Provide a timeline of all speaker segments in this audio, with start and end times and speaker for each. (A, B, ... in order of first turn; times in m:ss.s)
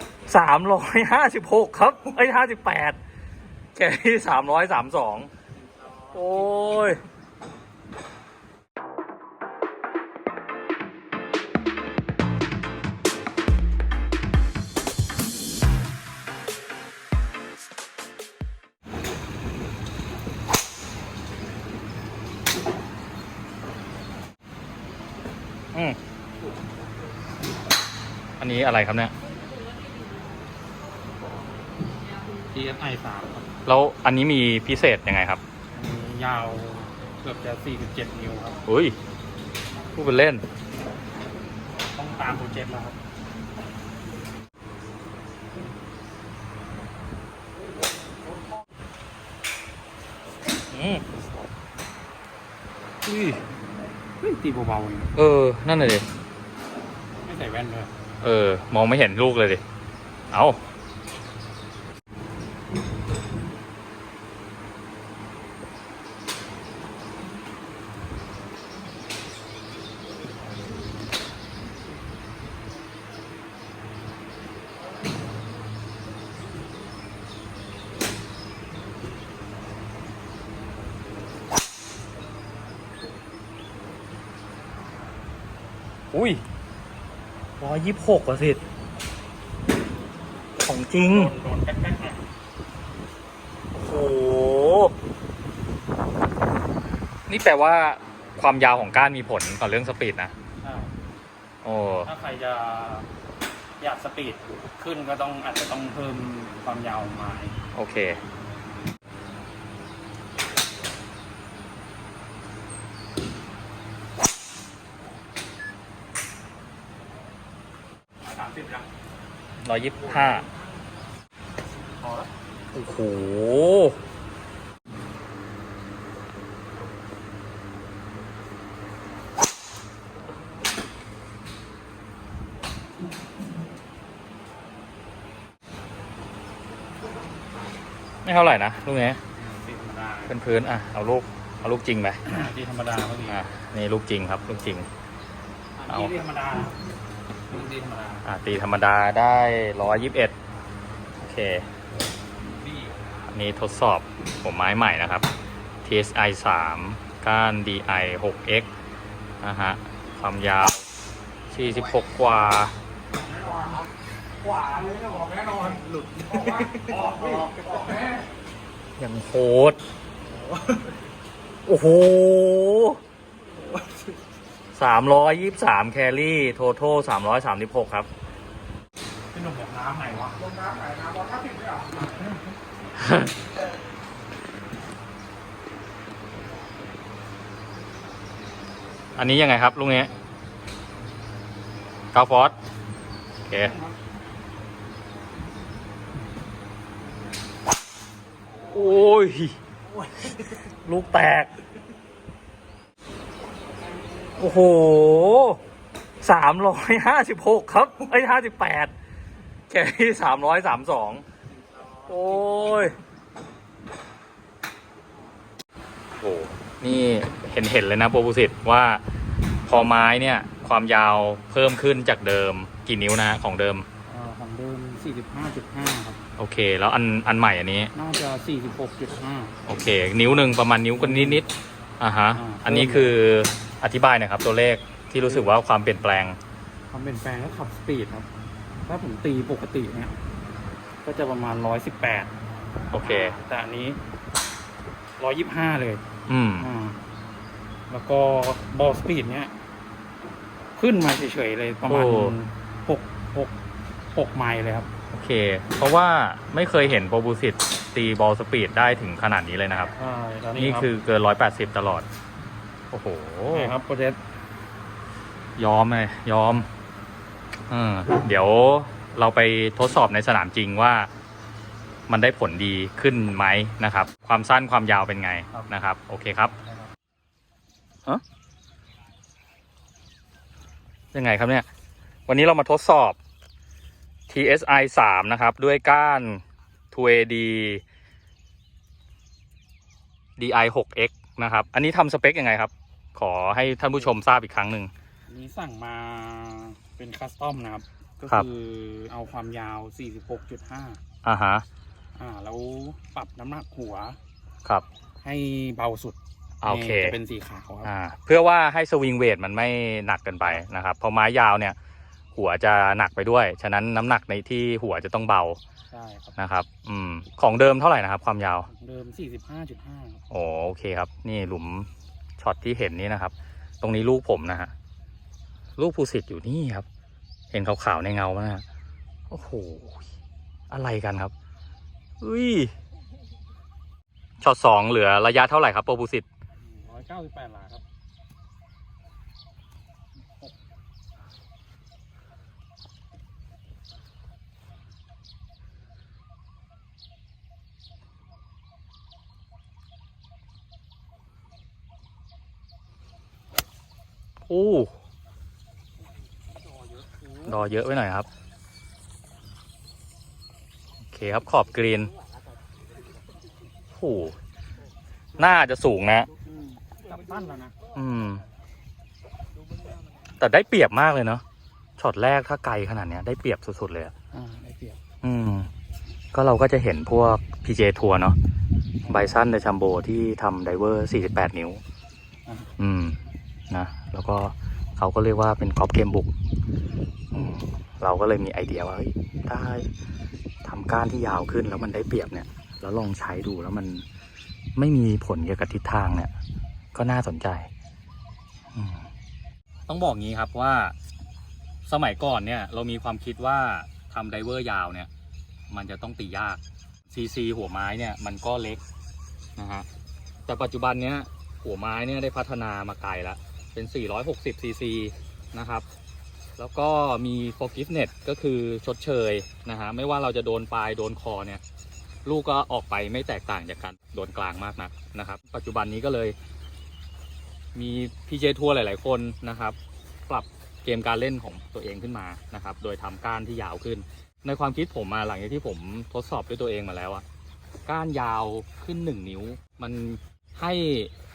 0:00.3-0:03.0 A
0:03.7-0:05.3 A
0:06.1-0:07.0 A
0:28.4-0:29.1 A
0:32.4-0:33.5 B
0:33.7-0:35.4 A
0:35.8-0:38.6 B
0:38.7-0:38.9 A
0:39.9-0:40.4 A
0:41.9-0:43.0 B
0:50.7-0:51.0 A
0:54.2-0:55.1 B
0:55.2-0:56.1 A
0:57.2-0:57.9 B
0:58.2-0:59.6 A
1:00.3-1:00.6 A
1:26.1-1:26.4 A
1:27.6-1:28.6 A
1:30.6-1:31.3 A
1:31.1-1:32.2 B
1:33.8-1:34.9 A
1:37.3-1:40.3 A
1:40.6-1:40.9 B
1:41.6-1:42.1 A
1:42.0-1:43.1 B
1:43.8-1:47.6 B
1:47.7-1:48.2 A
1:58.2-1:58.9 B
1:59.6-2:00.4 A
2:02.7-2:04.0 A
2:18.2-2:19.2 A
2:19.4-2:20.3 B
2:20.3-2:22.2 A
2:22.3-2:23.5 B
2:23.3-2:24.9 A
2:25.8-2:26.8 B
2:25.9-2:26.2 A
2:27.5-2:28.2 B
2:28.2-2:30.3 A
2:31.2-2:31.7 A
2:32.6-2:32.9 B
2:33.3-2:35.3 A
2:35.8-2:38.7 A
2:39.4-2:40.8 A
2:41.5-2:42.7 A
2:44.8-2:45.8 B
2:46.4-2:47.7 B
2:49.0-2:49.8 A
2:51.7-2:53.0 A
2:54.7-2:58.1 A
2:59.3-3:02.1 B
3:03.0-3:03.3 A
3:09.2-3:10.1 A
3:12.1-3:12.6 A
3:13.5-3:13.8 A
3:18.7-3:19.6 A
3:20.7-3:21.5 A
3:24.4-3:25.6 A
3:26.2-3:28.9 A
3:29.7-3:31.2 A
3:32.1-3:33.0 A
3:36.2-3:39.0 A
3:39.7-3:43.9 A
3:44.1-3:46.2 B
3:46.4-3:47.9 A
3:48.0-3:49.6 B
3:49.7-3:51.5 A
3:51.0-3:51.4 B
3:52.0-3:56.4 A
3:52.3-3:53.2 B
3:55.2-3:55.5 B
3:56.9-3:58.3 B
3:58.9-4:00.2 B
4:01.0-4:02.3 B
4:02.9-4:03.4 A
4:02.9-4:04.0 B
4:05.2-4:06.0 B
4:06.3-4:06.7 A
4:06.6-4:07.0 B
4:07.9-4:09.5 B
4:10.8-4:13.5 B
4:11.9-4:12.3 A
4:14.1-4:14.9 B
4:15.1-4:19.9 A
4:20.0-4:20.9 B
4:20.6-4:22.1 A
4:22.9-4:23.8 A
4:23.5-4:24.2 B
4:25.6-4:26.7 A
4:27.7-4:31.1 A
4:32.1-4:36.5 A
4:36.6-4:36.9 B
4:41.1-4:41.7 A
4:42.3-4:43.2 A
4:44.3-4:47.8 A
4:50.4-4:54.9 A
4:55.3-5:01.0 B
5:01.2-5:01.6 A
5:02.2-5:04.2 B
5:05.2-5:07.9 B
5:06.6-5:07.2 A
5:07.8-5:11.8 A
5:12.3-5:15.6 A
5:15.9-5:16.3 B
5:16.4-5:18.7 A
5:18.7-5:20.2 B
5:20.3-5:21.9 A
5:22.4-5:24.7 A
5:25.8-5:26.9 A
5:27.5-5:28.6 A
5:29.3-5:30.1 A
5:30.7-5:31.3 A
5:32.2-5:32.7 A
5:34.4-5:36.2 A
5:36.6-5:37.8 B
5:54.5-5:54.9 A
5:56.6-5:57.6 B
5:57.4-5:58.3 A
6:01.1-6:02.1 A
6:03.9-6:04.4 A
6:05.4-6:06.3 A
6:06.8-6:07.8 B
6:07.9-6:08.4 A
6:10.4-6:11.4 A
6:12.0-6:14.1 A
6:14.3-6:15.0 B
6:15.2-6:15.7 A
6:16.3-6:18.4 A
6:19.0-6:19.3 B
6:19.1-6:21.8 A
6:22.8-6:23.2 A
6:23.7-6:26.3 A
6:27.3-6:29.9 A
6:30.6-6:34.0 A
6:34.8-6:36.3 A
6:36.9-6:37.7 A
6:38.7-6:39.1 A
6:39.9-6:40.9 A
6:41.8-6:45.1 A
6:45.7-6:46.6 A
6:47.1-6:48.8 A
6:49.6-6:49.8 A
6:50.5-6:55.8 A
6:56.6-7:01.6 A
7:02.2-7:06.4 A
7:07.8-7:09.8 A
7:10.3-7:17.2 A
7:17.8-7:21.1 A